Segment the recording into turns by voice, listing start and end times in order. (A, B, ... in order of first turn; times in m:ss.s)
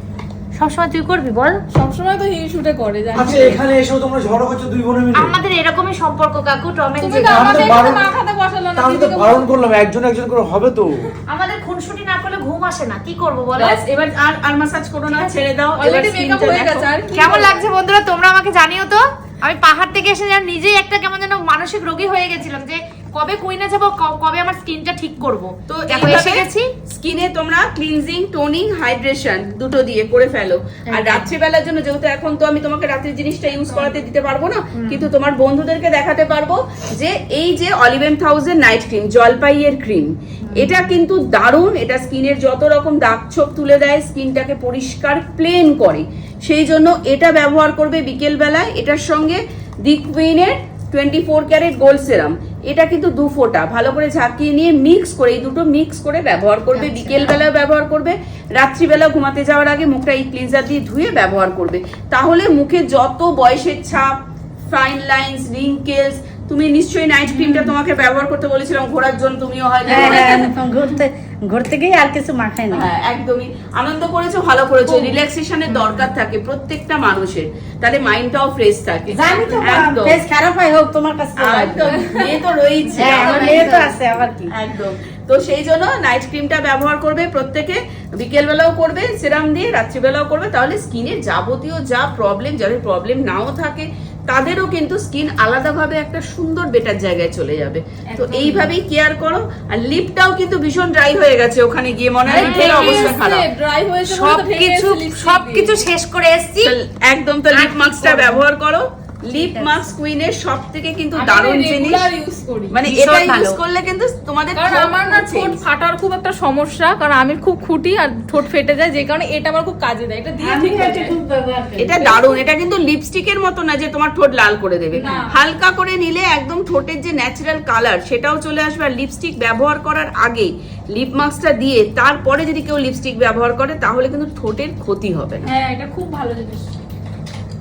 0:00.5-0:01.6 A
0:01.7-0:03.6 B
0:03.1-0:05.4 C
0:05.1-0:07.8 A
0:07.0-0:09.5 B
0:07.3-0:08.1 C
0:08.8-0:11.0 C
0:11.3-0:13.8 A
0:13.6-0:16.9 D
0:15.8-0:17.7 B
0:17.1-0:26.7 A
0:25.7-1:04.1 D
0:30.9-0:31.3 A
0:34.8-0:35.1 A
0:56.9-0:57.3 A
1:04.7-1:10.5 D
1:07.3-1:07.7 B
1:09.9-1:10.4 B
1:09.9-1:12.8 E
1:12.7-1:20.2 D
1:19.1-1:22.0 E
1:19.3-1:19.6 B
1:21.4-1:24.0 D
1:23.0-1:24.5 E
1:23.0-1:23.7 A
1:23.1-1:23.7 B
1:24.5-1:43.4 D
1:38.1-1:38.7 B
1:42.3-1:45.8 B
1:42.3-1:43.2 A
1:44.1-1:46.7 A
1:46.6-1:52.0 D
1:47.5-1:48.4 A
1:49.3-1:49.9 A
1:51.2-1:52.8 B
1:52.7-1:55.6 D
1:52.8-1:53.6 A
1:54.6-2:01.1 B
2:00.4-2:02.0 E
2:01.8-2:15.5 D
2:02.0-2:02.4 B
2:04.9-2:05.3 B
2:15.4-2:16.7 B